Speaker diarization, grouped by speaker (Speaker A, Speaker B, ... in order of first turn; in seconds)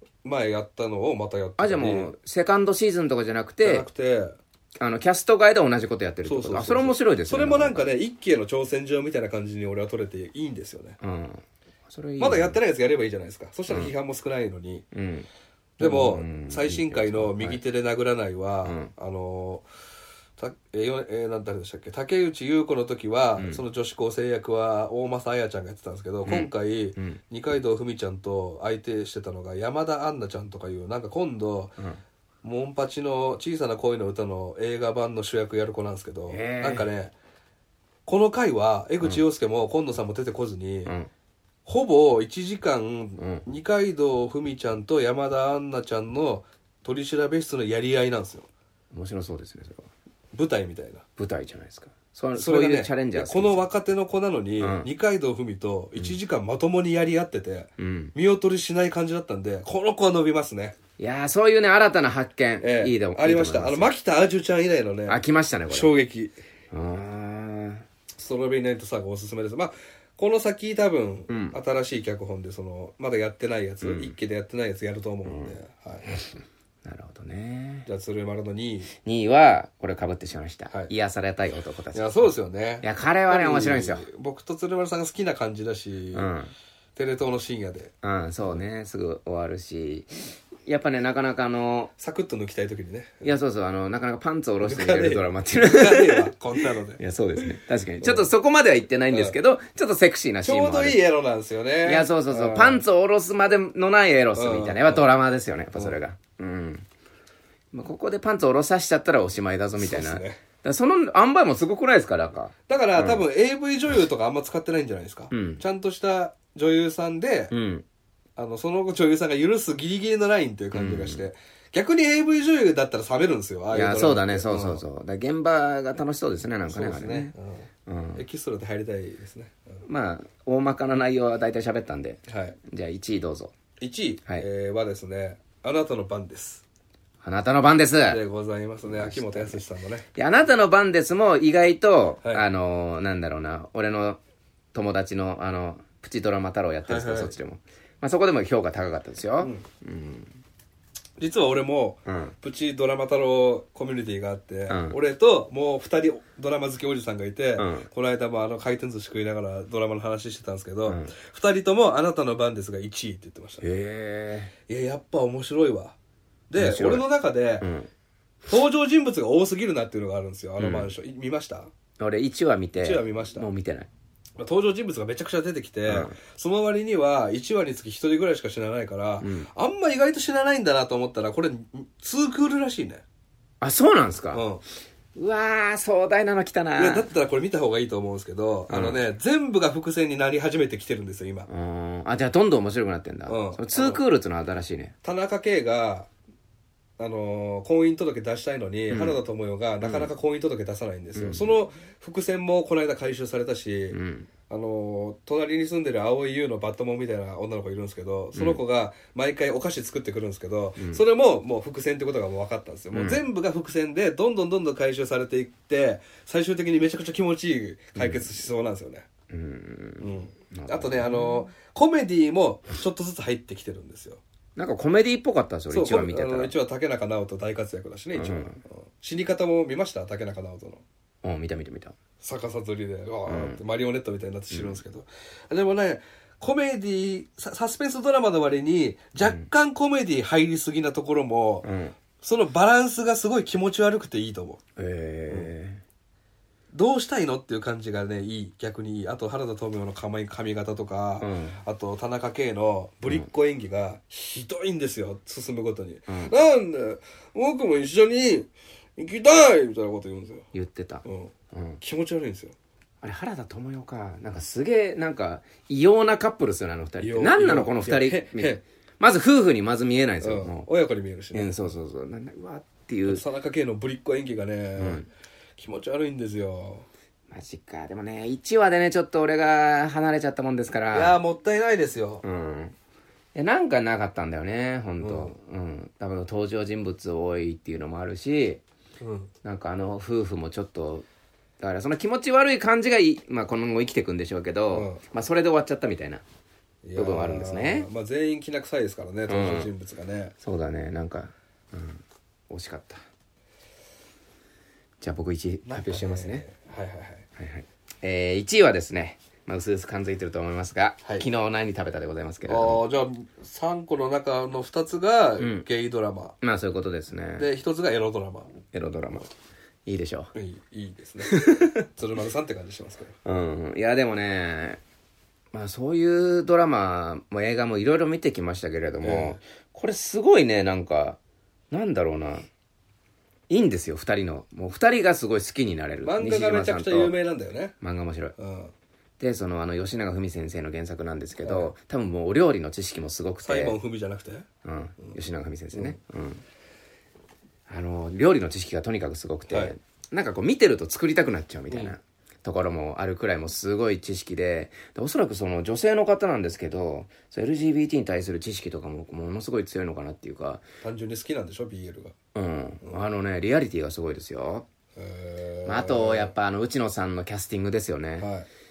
Speaker A: 0.2-2.1, 3.6-4.4, 6.2-11.0, 12.2-14.8, 15.8-19.6, 20.4-31.8, 32.4-37.1, 38.0-40.9, 41.6-48.5, 50.3-51.0, 52.4-60.8, 62.6-66.3, 68.2-76.1, 77.8-78.9, 81.9-86.3, 87.0-87.9, 92.0-93.3, 94.6-97.0, 98.0-98.3, 99.1-99.3, 100.4-102.8, 104.3-105.0, 109.8-110.4, 112.7-117.5, 118.4-124.8, 126.7-129.8, 132.3-132.6, 133.8-136.6, 138.1-140.1, 146.9-147.3, 151.2-163.6, 164.7-165.9, 166.5-167.7, 168.5-171.7, 172.8-173.5, 174.4-183.0, 184.3-184.6, 186.8-191.5, 193.3-194.0, 195.0-196.1, 197.0-204.0, 204.5-219.1, 220.0-224.2, 225.7-230.8, 232.2-241.7, 242.2-244.6, 246.7-260.5, 261.0-262.5, 267.0-268.6, 270.2-271.7, 273.1-275.1, 275.6-276.9, 280.9-282.2, 285.0-285.3, 289.0-289.3, 294.7-295.0, 296.8-300.3, 305.6-307.2, 312.4-316.4, 317.4-318.5, 320.3-323.1, 329.0-329.4, 336.0-337.8, 338.4-338.7, 341.4-341.7, 343.4-344.5, 349.5-349.7, 351.7-351.9, 360.8-362.1, 364.9-366.3, 368.2-368.5
Speaker B: 1.6-3.9, 4.8-7.9, 11.0-12.6, 14.9-15.3, 15.8-17.6, 18.6-18.9, 23.4-23.6, 26.2-27.2, 36.3-36.9, 43.2-43.4, 48.9-49.9, 51.2-53.7, 54.6-54.9, 57.8-58.1, 61.0-63.9, 65.1-65.9, 66.7-67.8, 71.3-71.5, 73.8-74.1, 75.2-75.6, 76.8-77.9, 79.0-84.1, 86.1-86.5, 88.0-90.1, 90.7-91.9, 93.2-101.0, 101.8-106.8, 107.7-113.2, 115.3-115.6, 117.5-117.8, 120.7-121.2, 123.7-127.3, 127.8-128.2, 129.8-133.5, 137.2-138.2, 138.8-139.6, 140.1-144.2, 144.7-150.3, 152.1-152.3, 154.7-155.0, 157.6-157.9, 160.9-161.1, 163.6-164.5, 166.6-167.1, 167.6-167.9, 170.6-170.9, 172.0-173.9, 175.9-176.1, 179.2-179.5, 183.6-184.4, 185.1-187.1, 188.7-189.0, 191.5-194.9, 198.9-199.2, 199.8-200.1, 201.1-201.5, 203.9-204.3, 208.3-208.6, 212.9-213.2, 217.9-218.3, 219.3-221.3, 224.6-226.5, 228.1-228.6, 231.2-231.9, 233.3-233.6, 234.5-234.8, 239.2-239.4, 241.6-242.0, 244.8-245.8, 251.2-251.6, 256.1-256.3, 260.5-261.8, 263.0-270.6, 271.3-273.2, 274.8-275.1, 277.3-281.2, 282.2-282.7, 283.3-288.6, 289.4-291.1, 291.6-296.2, 296.9-297.9, 299.3-299.7, 300.4-303.0, 305.0-306.4, 307.4-312.8, 315.4-315.6, 316.4-317.5, 318.7-319.3, 319.9-320.3, 321.3-321.7, 323.2-324.8, 325.5-331.2, 331.7-332.5, 333.5-337.1, 337.8-338.3, 339.2-343.8, 344.6-346.4, 347.7-360.6, 362.3-364.6, 365.6-368.3